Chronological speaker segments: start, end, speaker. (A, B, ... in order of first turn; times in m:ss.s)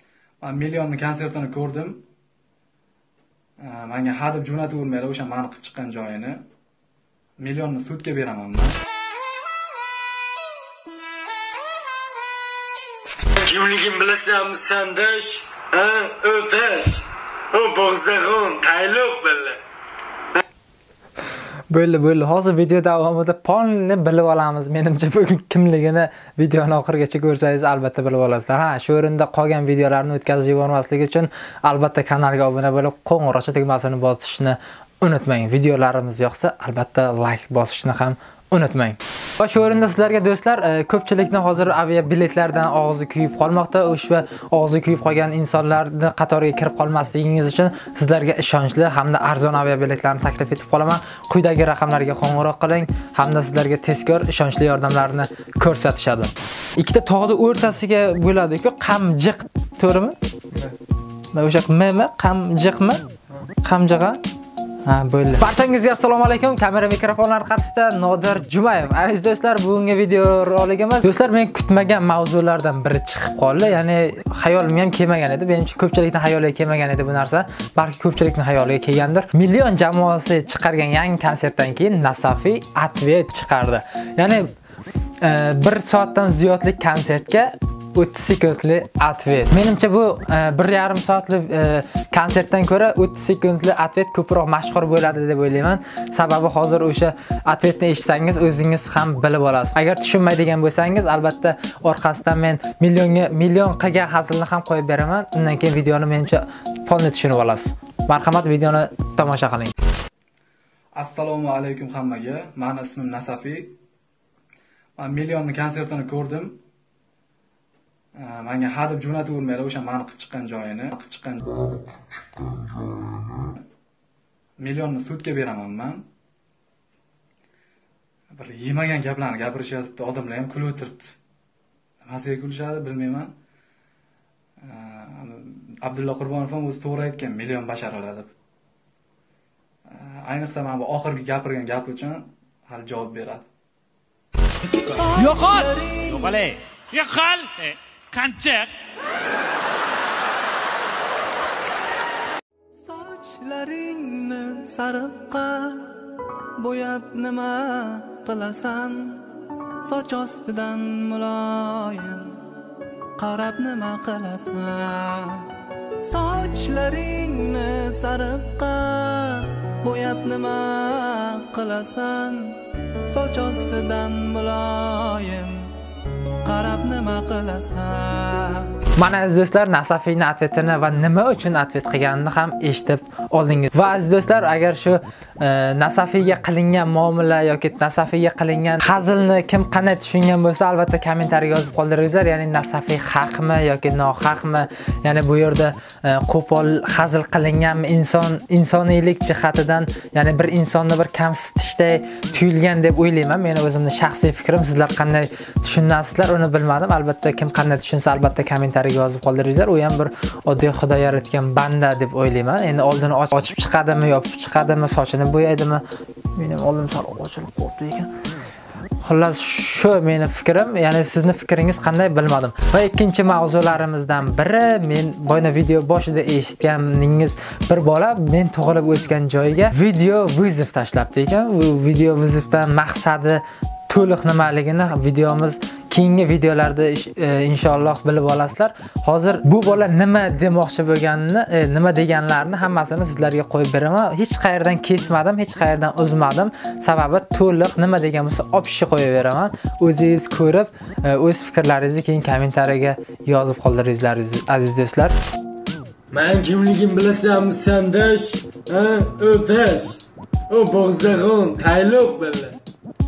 0:00.4-0:02.0 A
0:03.6-0:06.4 A
0:07.4-0:08.7 A
0:13.4-0:19.6 B
0:21.7-1:00.2 C
1:01.3-1:03.0 C
1:03.6-1:04.2 C
1:04.8-1:24.5 C
1:25.2-1:49.7 C
1:51.0-1:53.8 A
1:55.0-1:56.6 A
1:58.2-2:01.4 A
2:04.6-2:06.0 A
2:08.3-2:11.1 A
2:12.0-2:13.3 A
2:14.6-2:18.3 A
2:19.9-2:23.4 A
2:25.0-2:26.4 D
2:25.2-2:26.1 A
2:25.2-2:28.7 E
2:32.9-2:35.7 D
2:36.6-2:39.2 D
2:39.8-2:42.3 D
2:43.2-2:44.6 A
2:43.2-2:45.2 D
2:46.1-2:46.9 A
2:46.1-2:50.6 D
2:48.1-2:48.4 A
2:49.9-2:51.5 A
2:51.4-2:52.3 D
2:53.1-2:55.5 D
2:53.2-2:55.2 A
2:56.5-2:58.6 D
2:56.6-2:57.6 A
2:59.0-3:35.8 C
3:36.4-3:38.1 C
3:39.0-4:15.2 C
4:16.1-4:22.6 B